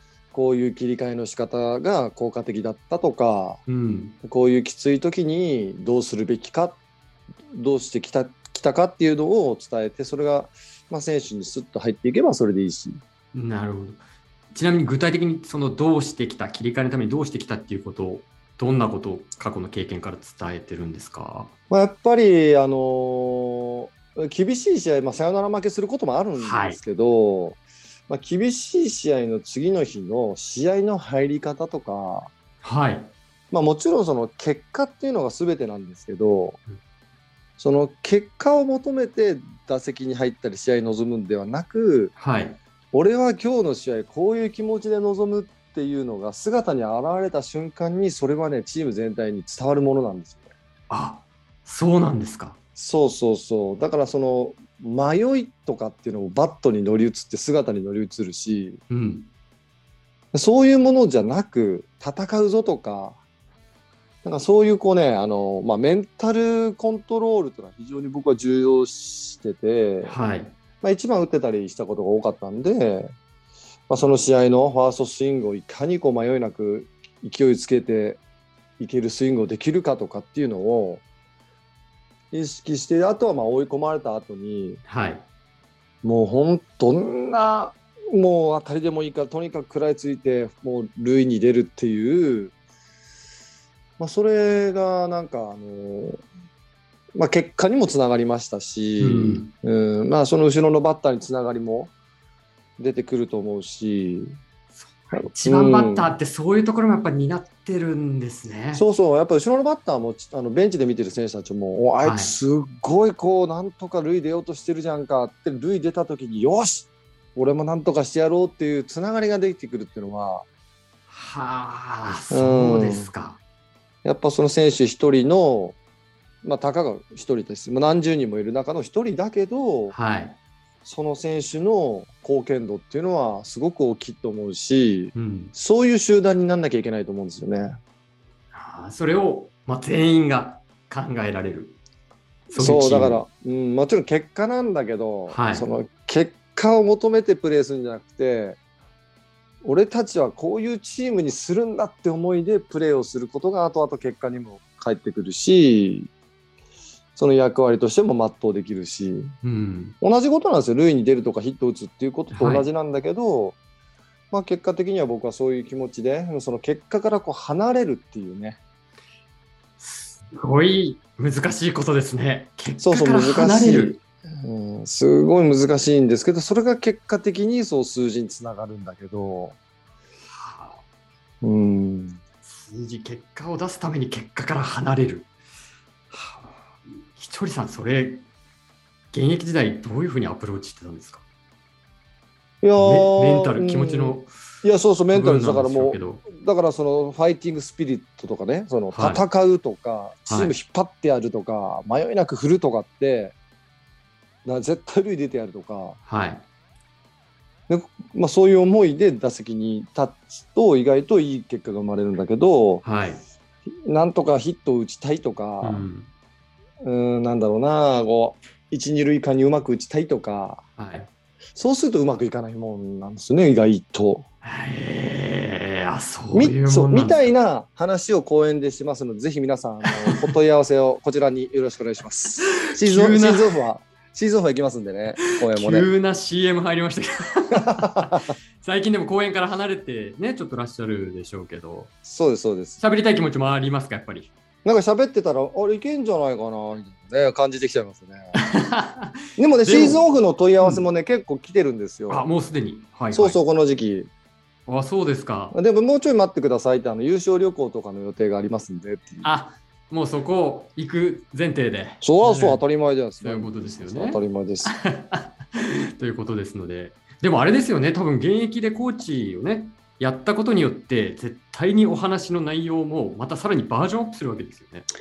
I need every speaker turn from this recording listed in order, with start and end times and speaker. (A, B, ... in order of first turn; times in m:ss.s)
0:00.3-0:03.6 A
0:03.7-0:04.2 B
0:04.2-0:06.8 A
0:07.5-0:13.0 A
0:13.3-0:21.5 B
0:21.7-0:32.3 A
0:26.4-0:26.8 B
0:32.6-0:33.1 B
0:33.5-0:36.6 A
0:37.6-0:42.2 A
0:42.2-0:42.6 B
0:42.9-0:50.5 A
0:50.9-0:52.6 B
0:52.8-0:58.8 A
0:58.9-0:59.3 B
1:00.3-1:03.2 A
1:04.2-1:10.1 A
1:10.0-1:10.6 B
1:10.8-1:13.1 A
1:13.9-1:18.2 A
1:18.8-1:21.0 A
1:22.3-1:24.8 A
1:24.9-1:25.2 B
1:26.0-1:32.5 A
1:34.0-1:36.2 A
1:37.2-1:41.9 A
1:39.0-1:39.5 B
1:42.8-1:44.3 A
1:45.0-1:48.8 B
1:45.1-1:46.1 A
1:48.7-2:00.4 A
1:52.0-1:52.4 B
2:01.1-2:03.4 B
2:02.3-2:03.1 A
2:04.0-2:05.8 A
2:06.4-2:10.0 A
2:09.9-2:10.4 B
2:10.8-2:17.7 A
2:15.2-2:15.5 B
2:18.5-2:21.8 B
2:22.5-2:23.2 B
2:22.5-2:28.6 A
2:25.3-2:25.6 B
2:29.6-2:36.1 A
2:37.2-2:39.3 A
2:39.4-2:40.0 B
2:40.0-2:43.6 A
2:42.3-2:42.7 B
2:44.3-2:48.6 A
2:49.8-2:54.0 B
2:52.8-2:59.6 A
3:00.4-3:00.8 B
3:01.4-3:02.2 A
3:02.4-3:05.3 B
3:06.1-3:06.5 B
3:07.1-3:08.2 B
3:09.1-3:11.2 B
3:12.6-3:23.3 A
3:12.8-3:14.3 B
3:15.1-3:16.2 B
3:18.9-3:19.2 B
3:20.3-3:20.6 B
3:24.4-3:26.0 A
3:26.1-3:26.4 B
3:27.7-3:32.8 A
3:32.8-3:33.2 B
3:33.9-3:35.8 A
3:35.6-3:36.1 B
3:36.8-3:40.6 A
3:40.8-3:41.1 B
3:41.6-3:44.3 A
3:44.4-3:47.3 B
3:46.3-3:55.9 A
3:52.4-3:53.5 B
3:55.2-4:01.9 B
3:57.6-3:58.3 A
4:02.0-4:02.8 A
4:02.8-4:04.3 B
4:04.6-4:08.4 A
4:08.4-4:10.0 B
4:09.4-4:12.3 A
4:10.6-4:10.8 B
4:12.1-4:13.4 B
4:13.1-4:14.1 A
4:14.7-4:15.6 B
4:15.5-4:19.2 A
4:19.2-4:22.6 B
4:22.0-4:24.8 A
4:23.2-4:34.9 B